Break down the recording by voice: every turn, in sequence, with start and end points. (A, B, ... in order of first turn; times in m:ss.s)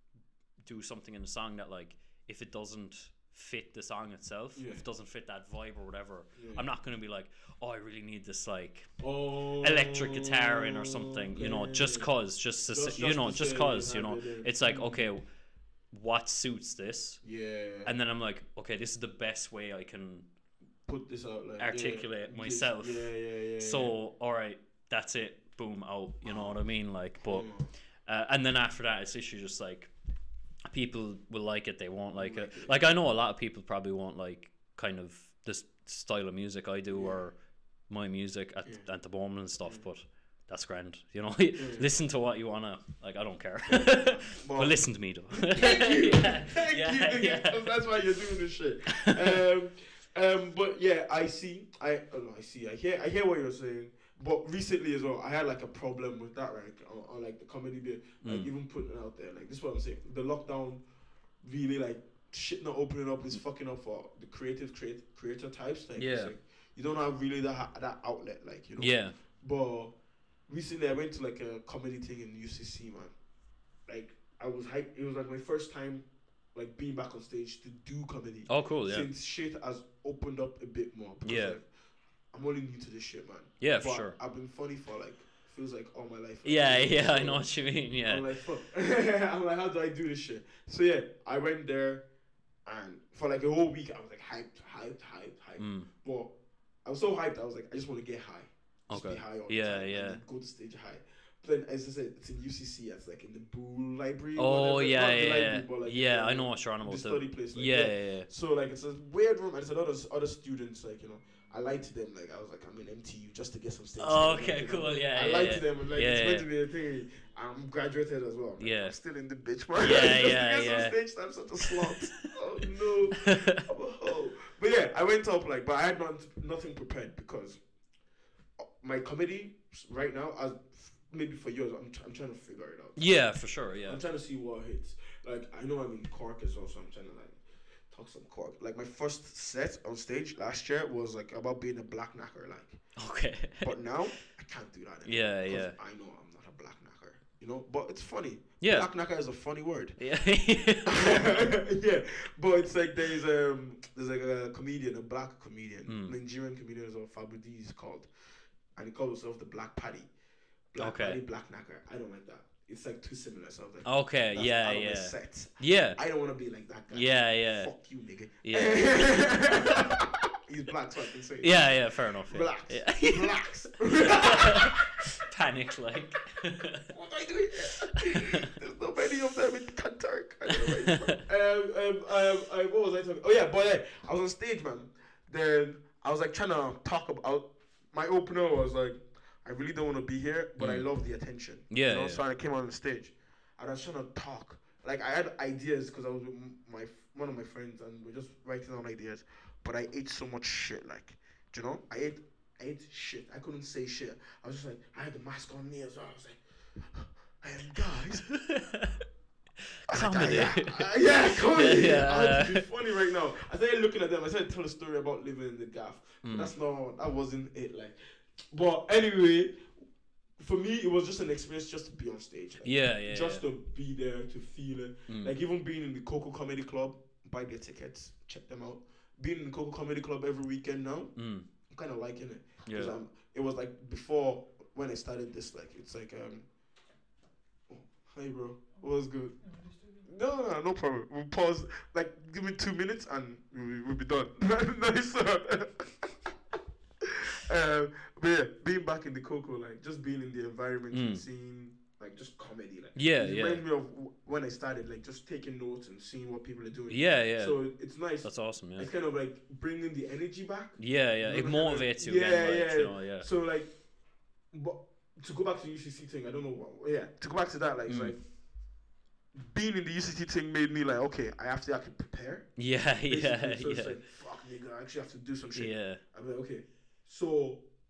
0:00.6-0:15.3 A
0:04.6-0:04.8 B
0:06.4-0:06.6 B
0:09.0-0:12.1 B
0:12.7-0:15.1 B
0:15.9-0:17.2 A
0:17.2-0:17.9 B
0:17.8-0:20.2 A
0:20.9-0:24.0 B
0:21.6-0:27.5 A
0:26.3-0:26.6 B
0:27.2-0:27.7 B
0:28.1-0:29.9 A
0:30.7-0:37.4 A
0:32.2-0:32.8 B
0:36.9-0:37.2 B
0:37.9-0:47.8 A
0:41.6-0:41.9 B
0:44.2-1:00.8 B
0:58.2-0:58.5 A
1:01.4-1:09.9 B
1:06.0-1:06.3 A
1:08.8-1:09.2 A
1:10.5-1:13.1 B
1:13.9-1:21.7 B
1:18.5-1:19.1 A
1:21.2-1:21.6 A
1:22.3-1:27.4 B
1:23.6-1:24.2 A
1:26.4-1:28.3 A
1:28.0-1:32.1 B
1:32.7-1:36.3 B
1:35.6-1:35.9 A
1:36.8-2:07.6 B
1:38.9-1:40.2 A
1:44.4-1:48.3 A
1:54.0-1:56.5 A
1:58.6-1:59.0 A
1:59.8-2:01.0 A
2:01.6-2:02.0 A
2:03.2-2:03.6 A
2:08.6-2:13.0 B
2:13.0-2:14.0 A
2:13.9-2:22.8 B
2:23.0-2:23.8 A
2:23.6-2:30.0 B
2:25.1-2:25.8 A
2:28.6-2:28.9 A
2:30.0-2:31.5 A
2:30.9-2:38.1 B
2:35.9-2:36.2 A
2:38.8-2:40.1 B
2:40.7-2:51.7 B
2:40.8-2:41.2 A
2:43.8-2:46.0 A
2:46.9-2:47.7 A
2:48.4-2:49.9 A
2:51.4-2:53.4 A
2:52.3-2:54.9 B
2:54.0-2:56.9 A
2:56.9-3:28.3 B
2:58.0-2:58.4 A
3:00.5-3:01.2 A
3:10.6-3:10.9 A
3:11.7-3:12.2 A
3:28.3-3:29.0 A
3:29.9-3:38.0 B
3:29.9-3:32.6 A
3:36.2-3:36.5 A
3:38.5-3:39.7 B
3:40.4-3:51.1 B
3:42.6-3:43.4 A
3:45.1-3:45.3 A
3:51.2-3:51.5 A
3:51.7-3:56.5 B
3:52.7-3:53.0 A
3:57.7-4:06.2 B
4:07.0-4:23.7 B
4:10.9-4:11.2 A
4:13.0-4:13.6 A
4:16.9-4:17.6 A
4:18.2-4:18.9 A
4:20.8-4:23.3 A
4:24.5-4:28.2 B
4:27.9-4:28.2 A
4:29.4-4:32.5 B
4:32.6-4:34.0 A
4:33.1-4:37.6 B
4:35.6-4:36.0 A